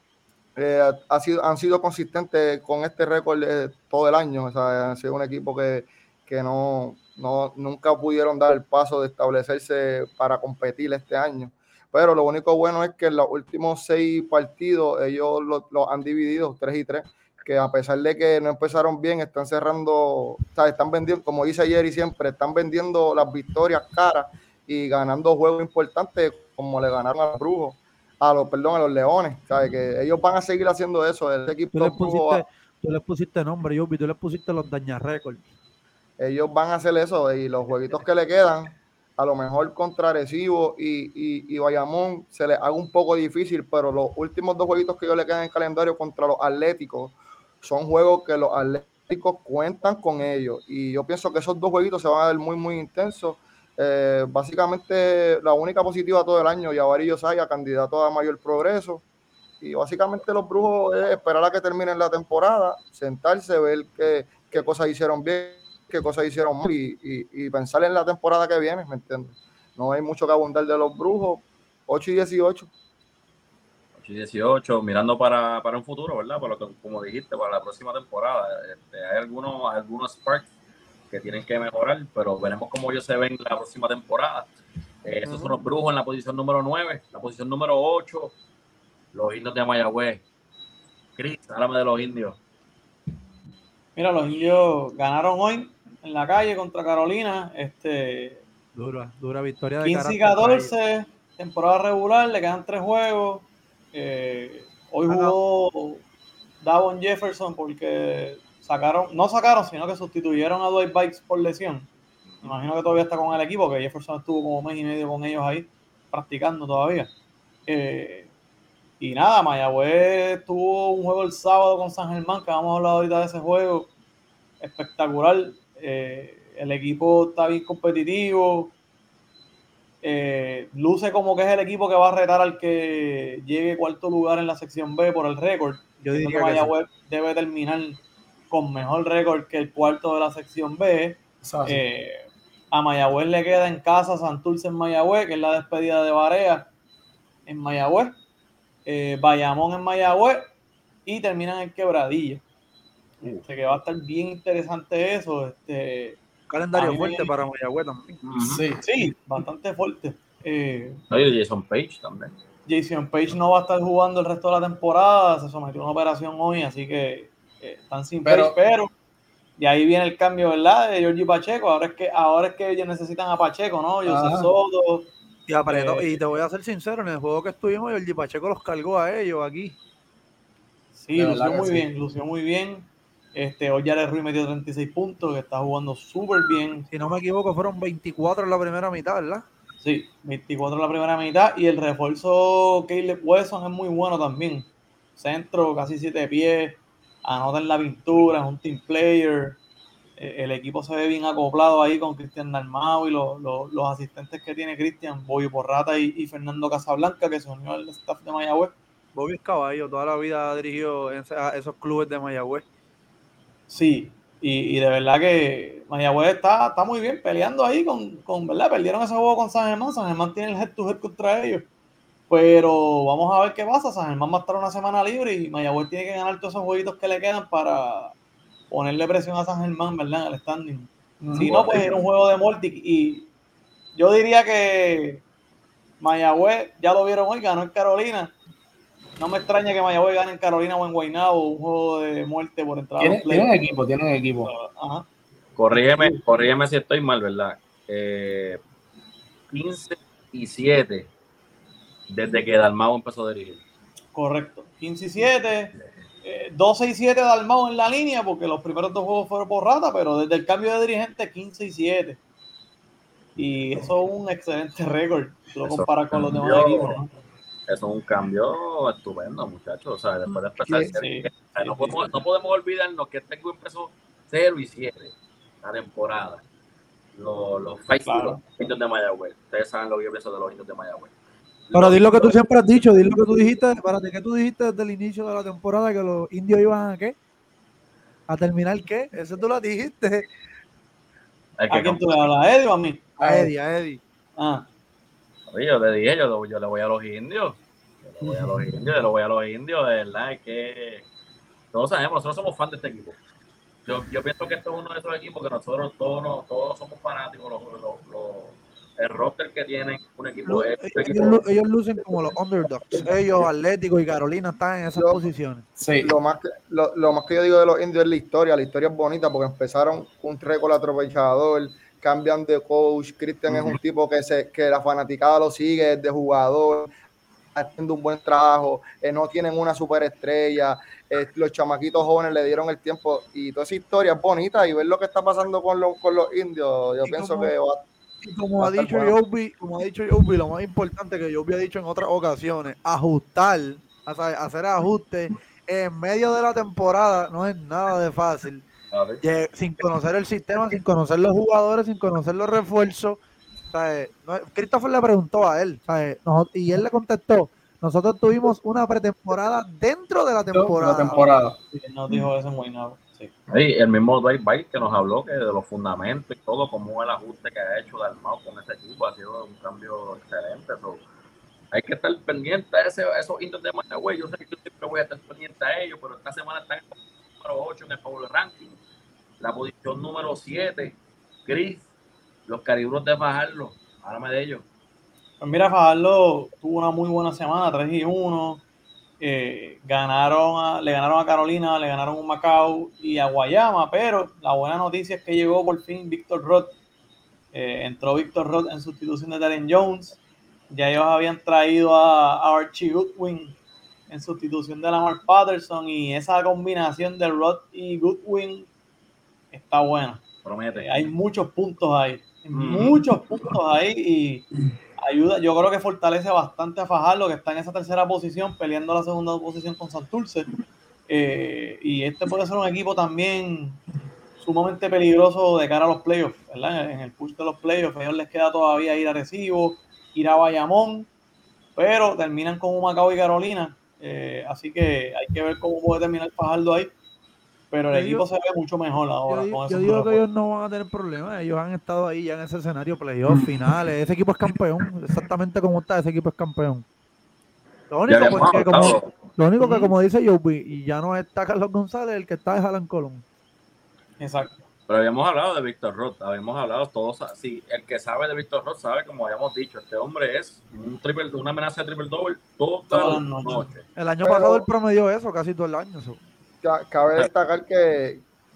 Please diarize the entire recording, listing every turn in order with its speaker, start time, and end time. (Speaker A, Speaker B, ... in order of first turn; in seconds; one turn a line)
Speaker A: 0.6-32.4
Speaker B: 31.7-35.5
Speaker A: 36.2-59.0
Speaker A: 59.6-72.7
Speaker C: 74.0-80.5
Speaker C: 81.1-84.5
Speaker C: 85.0-88.3
Speaker C: 89.1-90.2
Speaker C: 91.2-92.4
Speaker D: 94.0-98.4
Speaker B: 98.8-100.7
Speaker D: 99.8-106.0
Speaker B: 105.1-105.4
Speaker D: 106.6-111.9
Speaker D: 112.4-117.1
Speaker D: 117.7-118.3
Speaker D: 119.0-123.9
Speaker D: 124.6-128.7
Speaker D: 130.0-146.7
Speaker B: 136.0-136.7
Speaker E: 141.4-141.8
Speaker D: 147.5-148.2
Speaker D: 148.9-150.5
Speaker D: 151.1-152.4
Speaker D: 153.3-156.2
Speaker B: 156.5-158.1
Speaker D: 156.7-157.3
Speaker C: 158.2-158.6
Speaker E: 158.4-158.8
Speaker D: 158.8-161.0
Speaker C: 161.1-162.3
Speaker D: 162.7-168.9
Speaker E: 168.2-168.6
Speaker D: 169.6-175.1
Speaker E: 174.1-174.5
Speaker B: 175.5-179.8
Speaker D: 175.7-176.1
Speaker D: 181.0-186.9
Speaker E: 181.2-181.8
Speaker B: 186.9-189.4
Speaker D: 189.8-199.6
Speaker D: 200.2-208.7
Speaker B: 209.2-212.7
Speaker D: 213.7-221.7
Speaker D: 222.3-228.1
Speaker D: 228.7-233.3
Speaker E: 231.2-231.9
Speaker D: 234.0-235.2
Speaker D: 236.0-238.3
Speaker D: 239.2-243.8
Speaker E: 243.0-244.5
Speaker D: 244.4-245.1
Speaker C: 245.6-248.6
Speaker E: 245.9-246.2
Speaker C: 249.5-251.1
Speaker C: 252.1-253.6
Speaker D: 254.2-255.7
Speaker D: 256.2-262.2
Speaker D: 263.4-267.1
Speaker C: 265.7-267.0
Speaker C: 267.7-276.4
Speaker B: 270.6-270.9
Speaker D: 270.9-272.0
Speaker C: 277.2-281.1
Speaker D: 278.1-278.4
Speaker C: 281.7-282.4
Speaker B: 281.7-287.1
Speaker B: 288.3-290.3
Speaker C: 291.6-292.3
Speaker D: 291.7-293.1
Speaker B: 293.2-294.0
Speaker E: 293.2-293.5
Speaker D: 294.4-294.7
Speaker C: 295.5-301.1
Speaker E: 298.2-298.5
Speaker C: 301.7-303.2
Speaker C: 303.9-311.4
Speaker B: 310.4-315.6
Speaker A: 315.0-315.2
Speaker E: 315.8-316.1
Speaker A: 316.0-326.9
Speaker C: 323.5-323.8
Speaker A: 327.6-337.8
Speaker B: 337.0-337.5
Speaker B: 338.2-348.6
Speaker A: 338.6-339.1
Speaker C: 348.9-349.2
Speaker B: 349.2-353.2
Speaker B: 353.7-361.2
Speaker E: 360.5-361.6
Speaker D: 361.1-363.3
Speaker C: 363.5-371.0
Speaker C: 371.7-378.8
Speaker C: 379.4-381.8
Speaker C: 382.5-384.6
Speaker D: 385.4-388.6
Speaker D: 389.2-396.7
Speaker D: 397.5-400.2
Speaker D: 400.7-403.6
Speaker D: 404.1-408.7
Speaker D: 409.5-420.5
Speaker C: 410.4-410.9
Speaker C: 412.5-413.0
Speaker D: 421.1-423.8
Speaker D: 424.4-431.1
Speaker D: 431.8-436.9
Speaker D: 437.7-440.2
Speaker B: 437.9-438.2
Speaker B: 439.3-446.9
Speaker B: 447.9-453.2
Speaker C: 448.1-449.1
Speaker D: 449.6-449.9
Speaker D: 454.2-454.6
Speaker C: 454.9-463.9
Speaker D: 462.9-463.7
Speaker B: 464.0-466.2
Speaker A: 464.2-464.6
Speaker A: 466.6-468.2